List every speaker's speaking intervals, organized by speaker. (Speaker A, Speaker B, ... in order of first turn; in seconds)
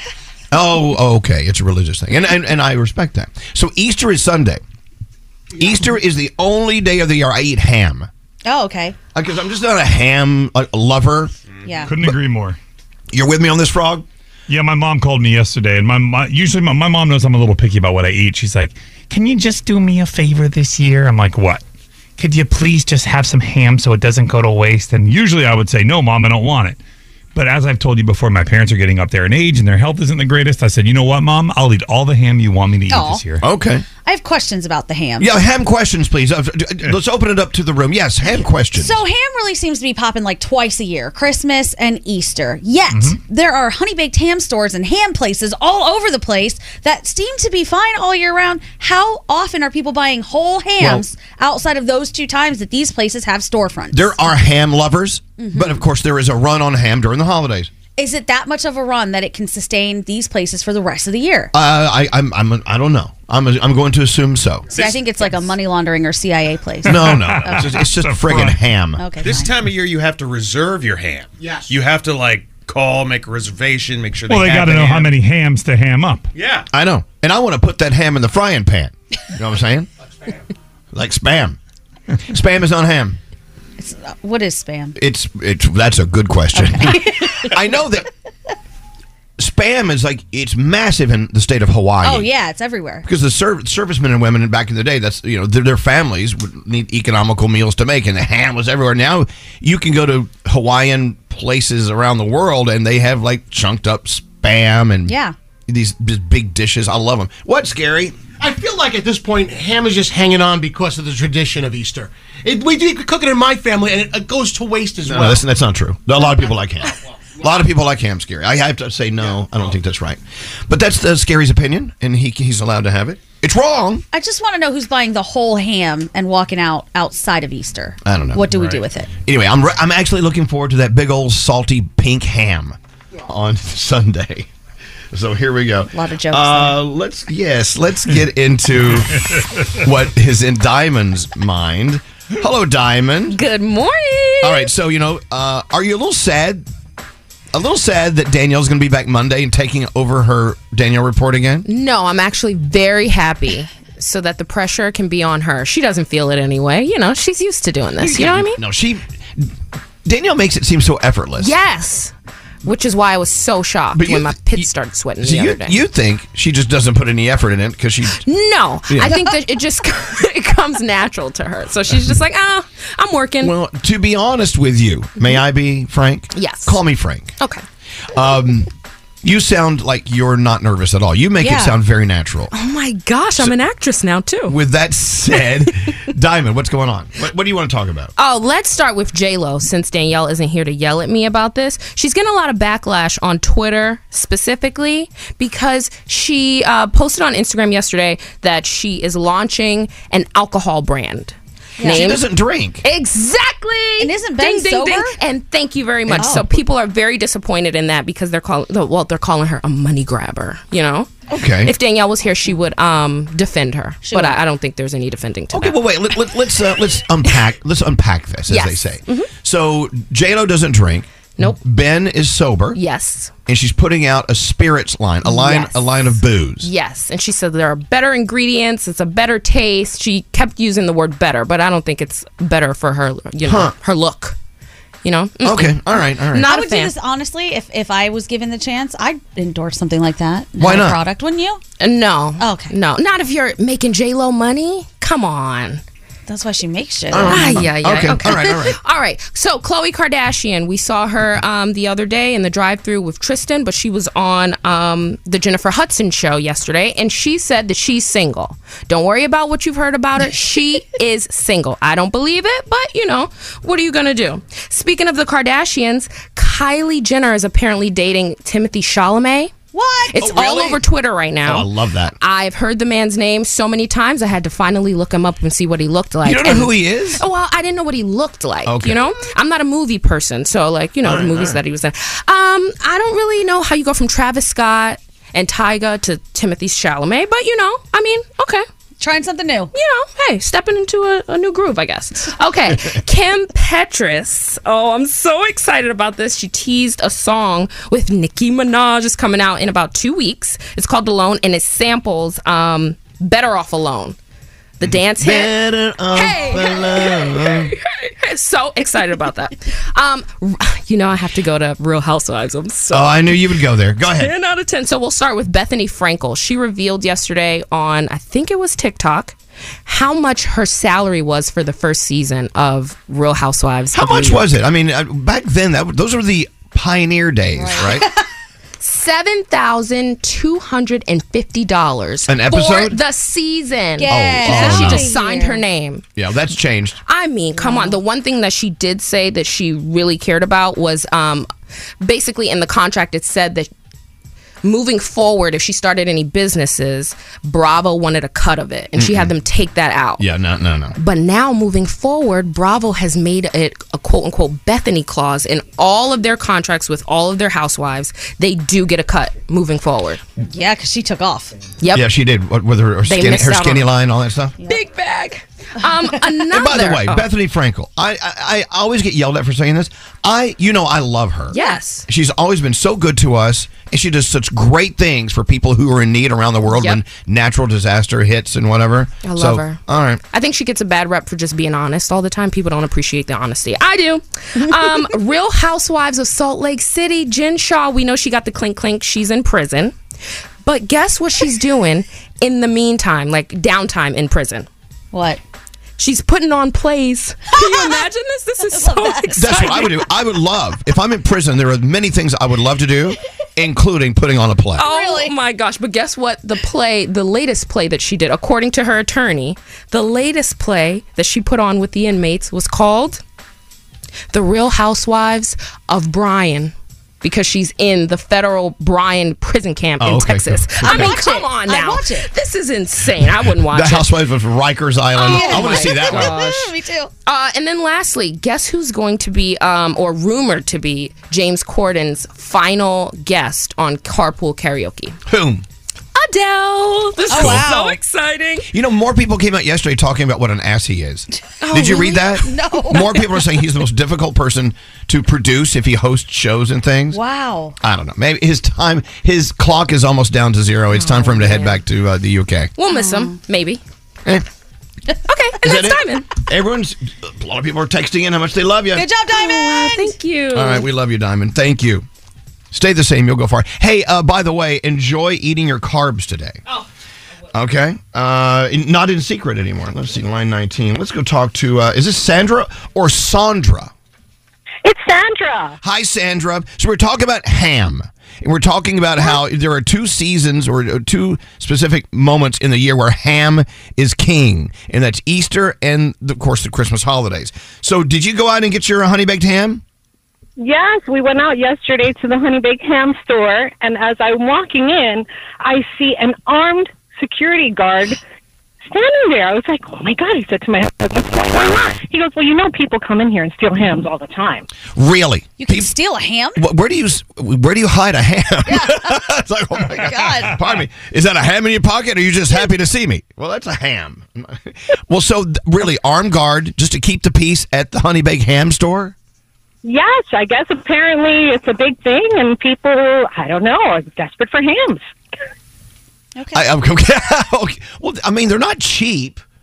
Speaker A: 0.5-4.6, 5.6-8.1, 9.1-11.3, 13.1-14.0, 33.4-33.8, 35.2-39.0, 53.9-57.7, 61.5-64.7, 66.8-69.0, 76.7-79.9, 80.9-81.6, 82.3-83.2, 85.0-88.1, 89.4-92.3, 93.0-105.1, 105.7-108.2, 115.0-124.0, 128.0-128.6, 129.2-134.5, 135.1-139.2, 139.8-143.4, 144.4-146.6, 147.5-151.7, 158.0-159.5, 160.0-161.5, 163.9-164.7, 165.2-168.2, 168.9-169.2, 173.4-177.3, 178.1-178.7, 179.2-182.5, 184.5-188.1, 201.8-202.8, 211.3-211.7, 215.5-222.8, 223.5-226.7, 233.4-233.7, 235.4-236.5, 240.6-241.0, 247.1-248.8, 270.1-270.8, 271.4-272.1, 276.2-277.2, 278.6-279.0, 281.0-281.6, 304.9-307.7, 312.9-314.3, 323.9-328.1, 332.3-333.0, 334.1-335.1, 336.1-337.0, 348.9-349.3, 350.2-350.9, 361.9-364.5, 366.5-380.2, 399.4-404.8, 420.0-421.1, 423.6-426.5, 435.3-435.6, 437.3-437.7, 438.7-447.2, 447.8-452.7, 455.6-459.1, 460.5-462.1, 462.7-466.6, 467.5-473.9, 475.8-489.8, 504.9-505.9, 506.6-519.1, 526.5-529.4
Speaker B: 8.4-8.9, 11.6-11.9, 32.9-33.2, 34.0-35.3, 38.3-54.2, 55.4-55.8, 58.0-61.5, 64.7-67.8, 69.0-69.5, 83.8-85.0, 86.5-87.5, 92.0-93.0, 105.1-105.3, 124.1-129.1, 135.9-136.8, 169.0-169.4, 181.4-181.7, 201.8-202.1, 204.0-205.2, 206.2-206.5, 214.0-214.4, 236.4-241.6, 242.4-242.7, 246.3-247.6, 269.7-270.1, 289.0-289.7, 327.5-328.2, 334.0-335.6, 337.6-338.0, 360.5-361.5, 371.5-371.8, 395.1-395.4, 397.5-398.0, 398.7-399.7, 404.8-405.3, 420.8-422.3, 425.2-427.1, 437.3-438.0, 442.4-443.4, 447.1-447.8, 452.9-453.3, 458.9-460.1, 505.6-506.6, 508.7-509.2, 509.9-510.6, 526.4-526.7
Speaker C: 11.5-11.8, 64.7-65.5, 69.2-75.2, 76.3-76.7
Speaker D: 11.8-12.6, 14.5-21.6, 22.2-26.8, 27.3-33.4, 42.9-43.2, 66.9-68.6, 74.3-76.3
Speaker E: 71.4-71.7, 108.4-115.5
Speaker F: 143.3-144.7, 151.7-158.6, 161.4-162.1, 162.6-165.8, 168.2-173.5, 176.3-176.8, 177.4-177.6, 182.5-184.6, 188.2-202.2, 202.8-211.1, 211.6-215.8, 218.5-219.3, 222.7-223.3, 225.2-225.9, 226.6-234.3, 235.0-236.9, 241.8-245.8, 247.2-269.5, 270.1-271.7, 272.2-288.6, 289.7-304.1, 304.8-305.5, 306.1-324.5, 328.8-336.0, 337.1-341.5, 342.0-343.7, 344.6-350.2, 351.0-360.2, 361.8-362.1, 363.1-363.9, 364.6-367.3, 371.5-372.0, 376.7-377.0, 379.2-389.9, 390.6-394.7, 396.0-400.0, 404.8-413.2, 414.3-424.1, 425.2-426.7, 427.2-435.2, 436.1-438.7, 441.6-442.4, 450.9-451.8, 452.8-453.8, 455.3-456.3, 459.3-460.9
Speaker G: 474.8-475.8, 490.6-498.2, 498.9-504.7, 519.8-525.0